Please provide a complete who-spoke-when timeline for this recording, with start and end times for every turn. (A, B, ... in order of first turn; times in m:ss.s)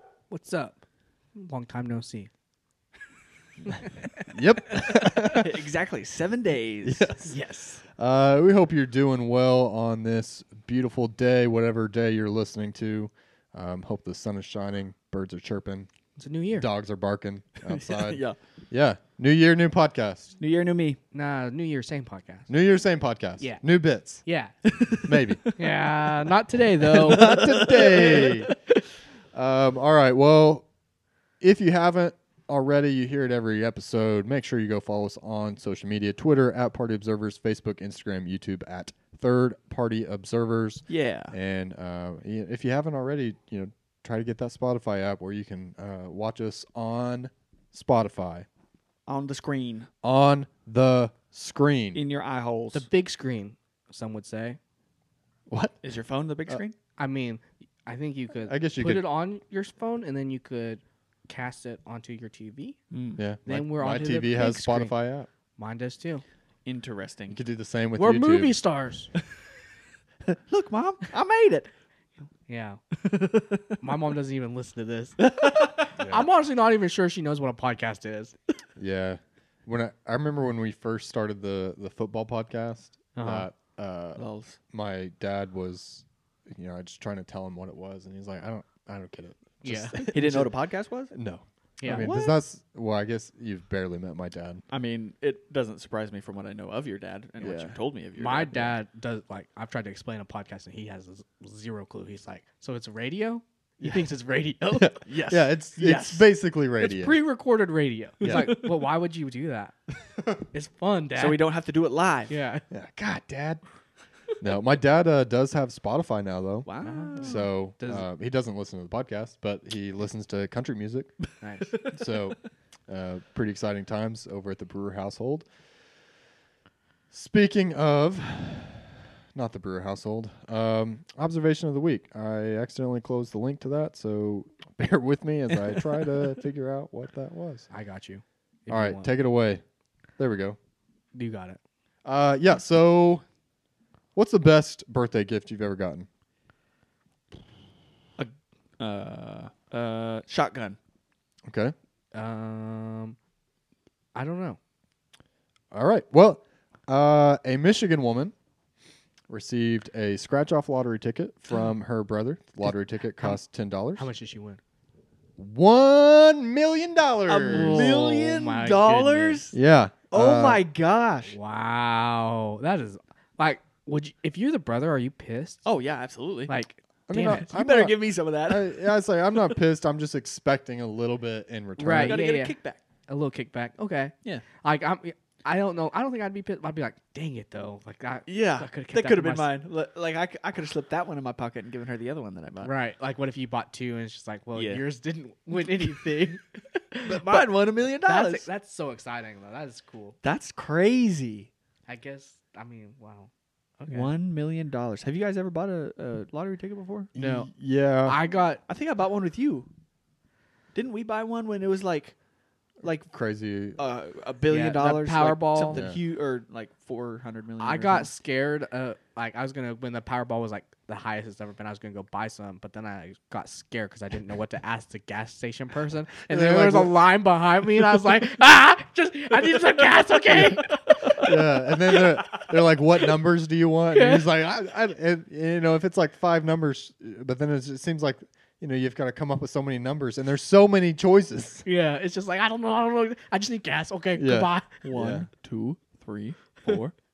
0:00.3-0:00.8 A
0:01.4-0:02.3 A
0:04.3-0:05.6 B
0:04.9-0:07.4 C
0:06.8-0:07.4 B
0:07.3-0:07.8 A
0:07.9-0:15.9 B
0:16.2-0:16.7 A
0:16.5-0:20.4 B
0:17.6-0:18.4 C
0:20.4-0:21.0 C
0:21.1-0:22.5 A
0:22.5-0:24.2 B
0:24.2-0:24.8 A
0:24.7-0:25.7 C
0:25.0-0:25.4 B
0:25.6-0:27.8 A
0:26.9-0:28.6 C
0:27.0-0:28.5 B
0:29.3-0:30.7 B
0:31.4-0:48.5 B
0:40.9-0:41.4 C
0:49.1-0:49.9 C
0:50.0-0:52.0 B
0:52.0-0:52.9 C
0:52.7-0:54.6 A
0:55.5-0:55.8 B
0:55.8-0:56.8 C
0:57.0-1:02.8 A
0:58.5-0:59.0 B
1:02.9-1:03.2 C
1:03.2-1:05.3 B
1:03.4-1:04.9 A
1:05.6-1:06.2 A
1:06.7-1:07.4 C
1:07.3-1:08.6 B
1:08.0-1:09.1 A
1:10.3-1:11.7 C
1:12.5-1:12.8 A
1:13.0-1:13.8 C
1:13.8-1:18.4 A
1:15.2-1:15.8 C
1:16.0-1:16.3 B
1:18.8-1:30.5 B
1:23.2-1:23.5 A
1:24.2-1:24.6 C
1:29.6-1:30.1 A
1:30.1-1:31.1 C
1:31.1-1:34.6 B
1:31.8-1:32.1 A
1:31.9-1:32.4 C
1:34.7-1:38.7 C
1:37.4-1:37.8 B
1:38.2-1:44.9 A
1:44.7-1:47.2 B
1:45.0-1:46.2 C
1:46.8-1:49.8 A
1:48.2-1:48.8 C
1:48.2-1:48.5 B
1:50.5-1:51.4 A
1:51.2-1:52.4 C
1:52.3-1:52.6 A
1:52.7-1:53.6 B
1:54.4-2:01.2 B
1:56.7-1:57.4 C
1:56.8-1:58.1 A
2:01.4-2:01.7 A
2:01.7-2:02.0 C
2:01.7-2:05.5 B
2:07.1-2:17.7 B
2:17.7-2:19.1 A
2:18.7-2:19.6 B
2:20.2-2:20.6 B
2:21.1-2:21.6 A
2:22.0-2:23.2 B
2:24.2-2:26.1 B
2:28.2-2:30.8 C
2:31.5-2:31.8 B
2:32.1-2:33.2 A
2:34.2-2:34.6 A
2:35.7-2:38.3 B
2:39.3-2:44.1 B
2:44.0-2:44.6 A
2:45.4-2:48.1 B
2:47.3-2:49.6 C
2:47.5-2:49.4 A
2:49.5-2:50.6 B
2:50.1-2:51.3 C
2:51.3-2:55.6 A
2:55.6-2:56.5 C
2:56.5-2:57.5 A
2:57.1-3:02.2 B
2:57.2-2:59.6 C
3:01.8-3:02.6 A
3:01.9-3:02.8 C
3:03.1-3:09.5 A
3:08.3-3:12.7 C
3:12.6-3:20.2 A
3:14.6-3:14.8 C
3:17.0-3:18.5 C
3:20.2-3:21.5 C
3:21.9-3:24.1 A
3:23.9-3:27.1 C
3:27.1-3:28.2 B
3:27.2-3:27.5 A
3:28.0-3:28.6 A
3:28.7-3:29.7 C
3:30.8-3:32.2 C
3:32.8-3:33.1 C
3:32.8-3:33.8 B
3:33.8-3:38.1 C
3:34.5-3:35.8 A
3:35.7-3:36.0 B
3:37.6-3:51.3 A
3:46.3-3:47.0 B
3:50.3-4:01.7 B
3:53.9-3:54.3 A
4:01.6-4:04.8 A
4:04.2-4:05.3 B
4:04.8-4:06.9 C